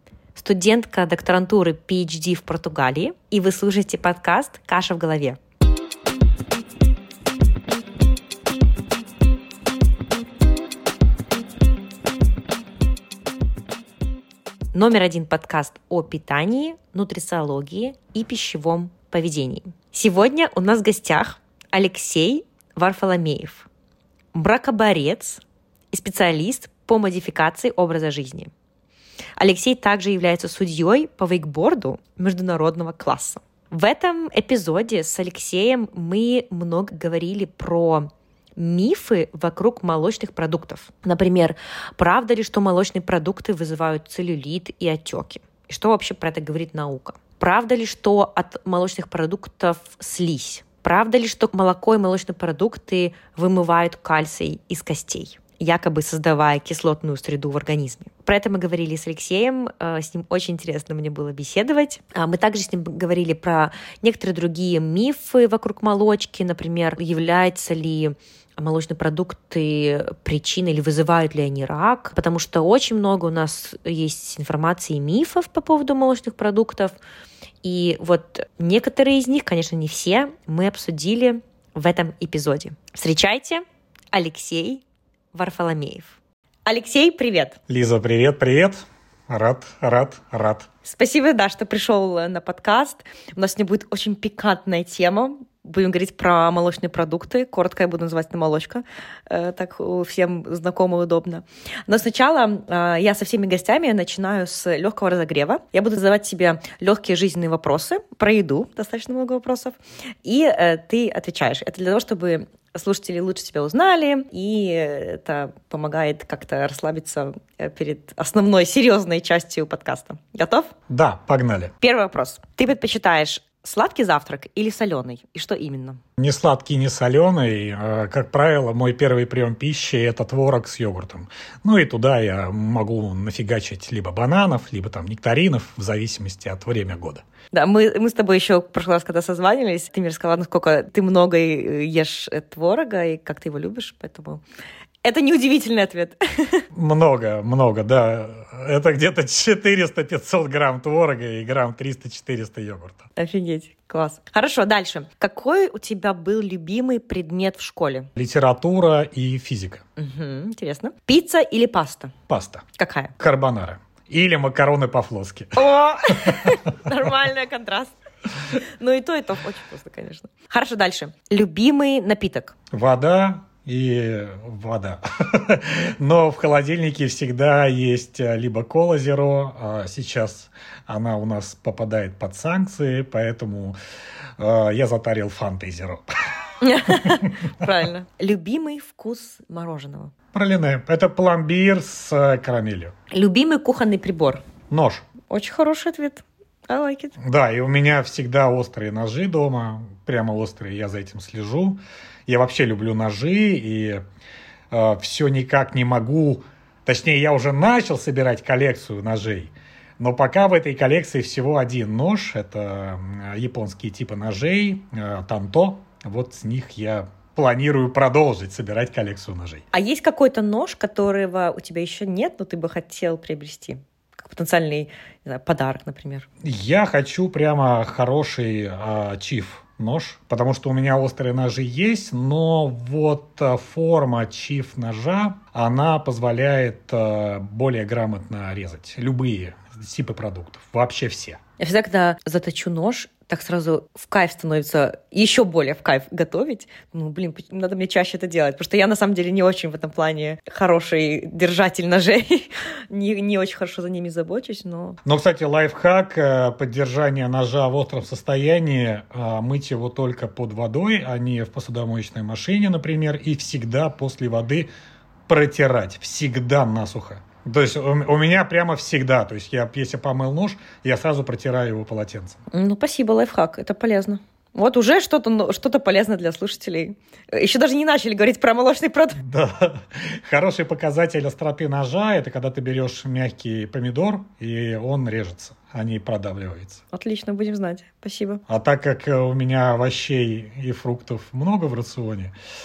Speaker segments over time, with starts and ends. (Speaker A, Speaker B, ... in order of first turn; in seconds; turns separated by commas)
Speaker A: 0.3-5.4, Speaker A: 14.7-23.7, Speaker A: 24.3-28.5, Speaker A: 29.4-77.0, Speaker A: 77.6-87.6, Speaker B: 87.7-90.7, Speaker A: 90.8-120.7, Speaker B: 120.9-121.7, Speaker A: 121.8-126.0, Speaker B: 126.2-137.2, Speaker A: 137.5-144.4, Speaker A: 145.0-146.7, Speaker B: 146.7-153.1, Speaker A: 153.2-158.1, Speaker B: 158.2-159.8, Speaker A: 160.0-162.1, Speaker B: 162.3-162.6, Speaker A: 162.8-163.1, Speaker B: 163.2-166.6, Speaker A: 165.5-167.9, Speaker A: 168.5-172.5, Speaker B: 172.7-183.8, Speaker B: 184.4-186.1, Speaker A: 186.6-190.1, Speaker B: 186.8-187.3, Speaker B: 190.3-192.9, Speaker A: 193.1-194.4, Speaker B: 194.7-195.1, Speaker A: 195.3-197.2, Speaker B: 197.2-204.0, Speaker B: 204.7-219.6, Speaker A: 219.7-226.2, Speaker B: 226.4-241.4, Speaker A: 241.6-255.0, Speaker B: 255.0-264.7, Speaker B: 265.3-272.4, Speaker A: 272.5-279.2, Speaker B: 279.2-286.8, Speaker A: 286.9-288.4, Speaker B: 288.5-292.3